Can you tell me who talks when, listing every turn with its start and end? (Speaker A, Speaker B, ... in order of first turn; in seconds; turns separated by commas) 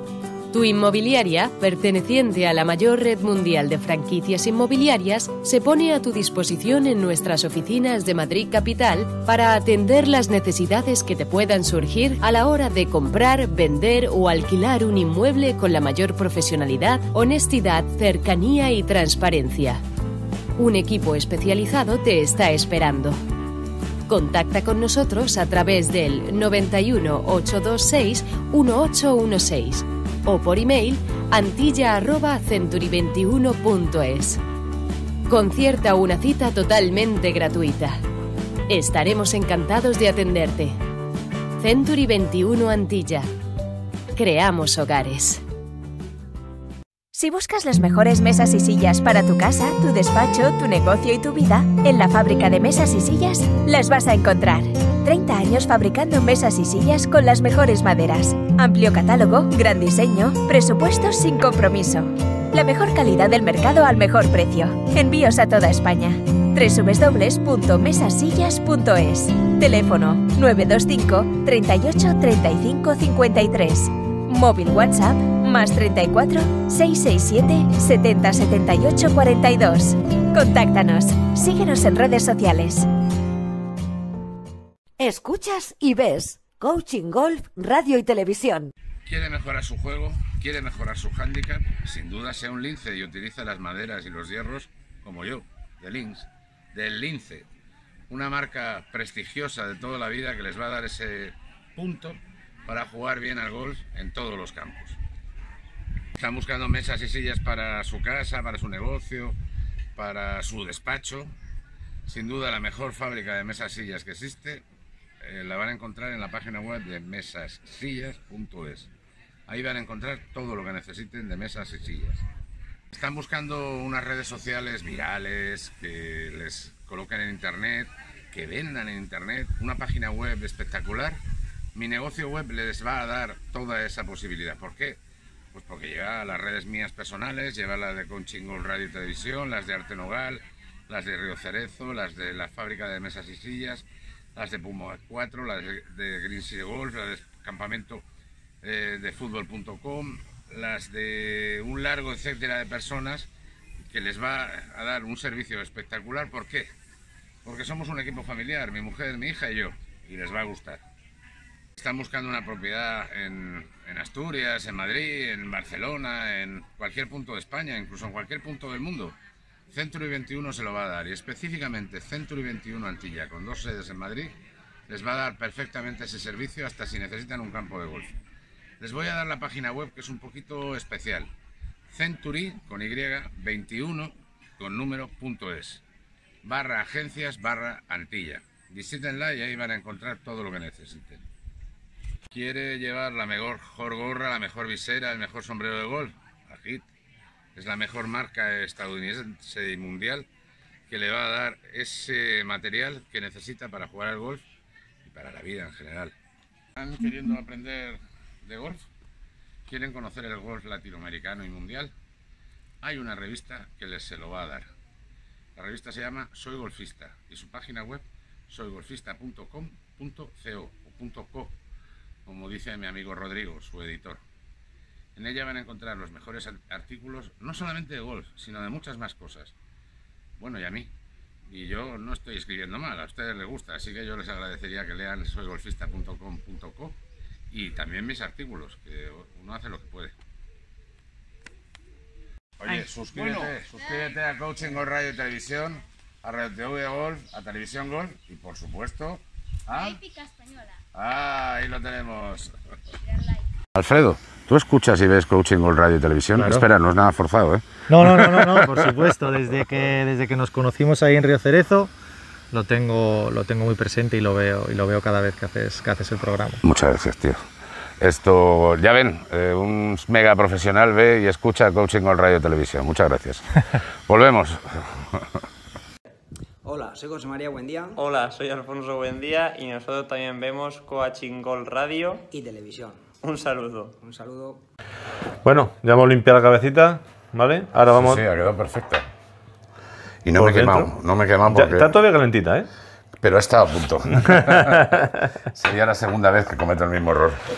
Speaker A: 0.5-19.8, Speaker A: 20.6-23.2, Speaker A: 24.1-34.4, Speaker A: 35.3-38.0, Speaker A: 38.7-40.8, Speaker A: 41.6-43.3, Speaker A: 44.1-45.4, Speaker B: 47.1-82.9, Speaker C: 85.0-88.7, Speaker D: 89.0-97.5, Speaker D: 98.1-105.0, Speaker D: 106.1-109.4, Speaker D: 109.9-111.3, Speaker D: 112.0-114.6, Speaker D: 115.2-118.9, Speaker D: 119.5-122.2, Speaker D: 122.9-131.2, Speaker D: 131.7-135.0, Speaker D: 135.5-148.0, Speaker D: 148.6-153.3, Speaker D: 153.9-156.7, Speaker D: 157.4-160.8, Speaker D: 161.8-169.2, Speaker D: 169.7-174.4, Speaker D: 174.9-178.1, Speaker D: 178.8-181.3, Speaker D: 181.9-185.8, Speaker D: 186.4-191.2, Speaker D: 192.3-196.9, Speaker D: 197.5-200.3, Speaker D: 200.9-204.4, Speaker D: 205.0-206.1, Speaker D: 206.7-208.9, Speaker D: 209.7-211.9, Speaker D: 212.8-214.7, Speaker D: 215.6-221.6, Speaker D: 222.2-224.2, Speaker D: 225.1-229.5, Speaker D: 230.4-230.9, Speaker D: 231.5-237.0, Speaker D: 237.5-240.1, Speaker D: 242.6-252.5, Speaker D: 253.7-258.9, Speaker E: 256.4-256.6, Speaker E: 257.9-261.9, Speaker E: 262.5-266.6, Speaker D: 266.6-267.4, Speaker D: 268.0-273.5, Speaker D: 274.1-275.2, Speaker F: 276.6-278.0, Speaker G: 278.0-282.2, Speaker F: 282.3-283.0, Speaker G: 283.2-283.9, Speaker F: 284.0-284.6, Speaker H: 285.4-288.2, Speaker D: 287.9-289.1, Speaker D: 290.2-291.9, Speaker H: 290.4-290.9, Speaker H: 291.5-292.7, Speaker D: 293.2-294.9, Speaker H: 294.4-295.2, Speaker D: 295.5-297.4